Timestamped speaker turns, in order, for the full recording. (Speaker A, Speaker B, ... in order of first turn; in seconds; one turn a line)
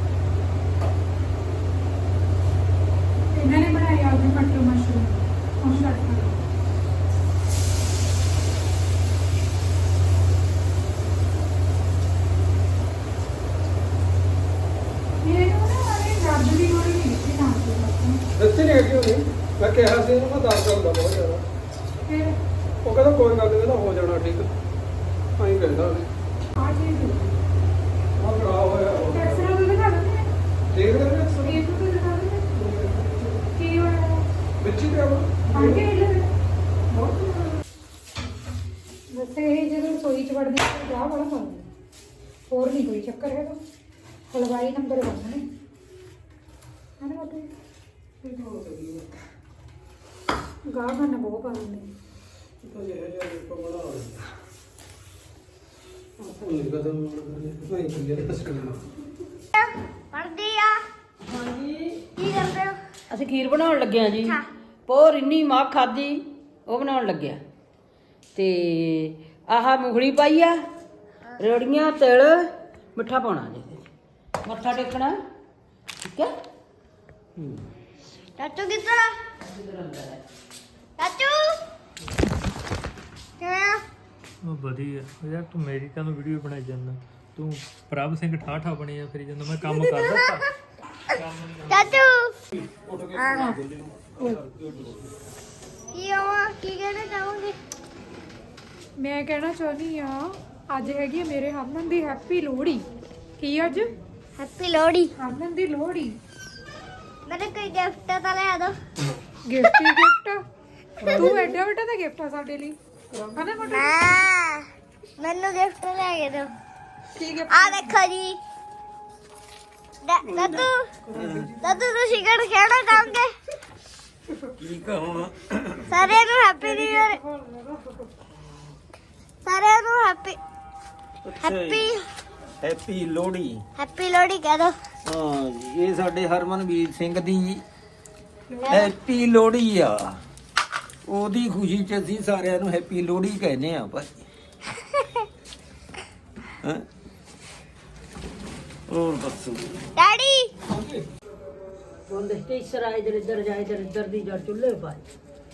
Speaker A: 3.3-6.4
Speaker A: 15.2-18.2
Speaker B: 18.4-21.4
Speaker A: 22.1-22.4
Speaker B: 22.9-24.5
Speaker B: 25.4-26.1
Speaker A: 26.6-27.4
Speaker B: 28.2-29.4
Speaker A: 29.1-30.3
Speaker B: 30.7-31.5
Speaker A: 31.4-32.5
Speaker B: 32.6-33.3
Speaker A: 33.5-34.3
Speaker B: 34.6-35.6
Speaker A: 35.5-36.3
Speaker A: 39.1-41.7
Speaker A: 42.5-43.6
Speaker A: 44.3-45.4
Speaker A: 47.0-47.5
Speaker B: 48.4-49.0
Speaker A: 50.7-51.9
Speaker B: 52.6-54.2
Speaker B: 56.2-58.8
Speaker C: 59.6-60.8
Speaker D: 61.4-61.9
Speaker C: 62.2-62.8
Speaker D: 63.1-67.4
Speaker D: 68.3-70.6
Speaker D: 71.4-72.4
Speaker D: 73.0-73.8
Speaker D: 74.4-75.2
Speaker D: 76.0-76.3
Speaker C: 78.4-79.2
Speaker D: 79.5-80.2
Speaker C: 81.0-81.6
Speaker C: 83.4-83.8
Speaker E: 84.4-90.5
Speaker C: 89.6-90.5
Speaker E: 91.2-92.0
Speaker C: 91.7-92.3
Speaker F: 92.9-93.2
Speaker C: 93.1-93.6
Speaker C: 95.9-97.5
Speaker A: 99.0-102.8
Speaker A: 103.4-103.9
Speaker C: 104.4-105.1
Speaker A: 105.2-106.2
Speaker C: 107.3-108.8
Speaker A: 109.5-110.4
Speaker C: 111.1-111.5
Speaker A: 111.1-112.8
Speaker A: 113.4-114.0
Speaker C: 113.7-114.7
Speaker C: 115.2-116.5
Speaker A: 117.2-118.0
Speaker C: 117.5-118.4
Speaker C: 120.0-120.9
Speaker B: 121.1-121.5
Speaker F: 121.2-121.5
Speaker C: 121.6-123.3
Speaker F: 124.6-126.1
Speaker C: 125.9-127.2
Speaker A: 126.6-128.1
Speaker C: 129.4-130.4
Speaker F: 131.2-131.9
Speaker C: 131.4-132.0
Speaker F: 132.6-133.6
Speaker C: 133.8-134.8
Speaker F: 135.1-137.6
Speaker A: 138.5-138.9
Speaker F: 138.7-140.2
Speaker F: 141.1-144.2
Speaker F: 148.9-149.9
Speaker C: 150.0-150.5
Speaker D: 152.1-155.0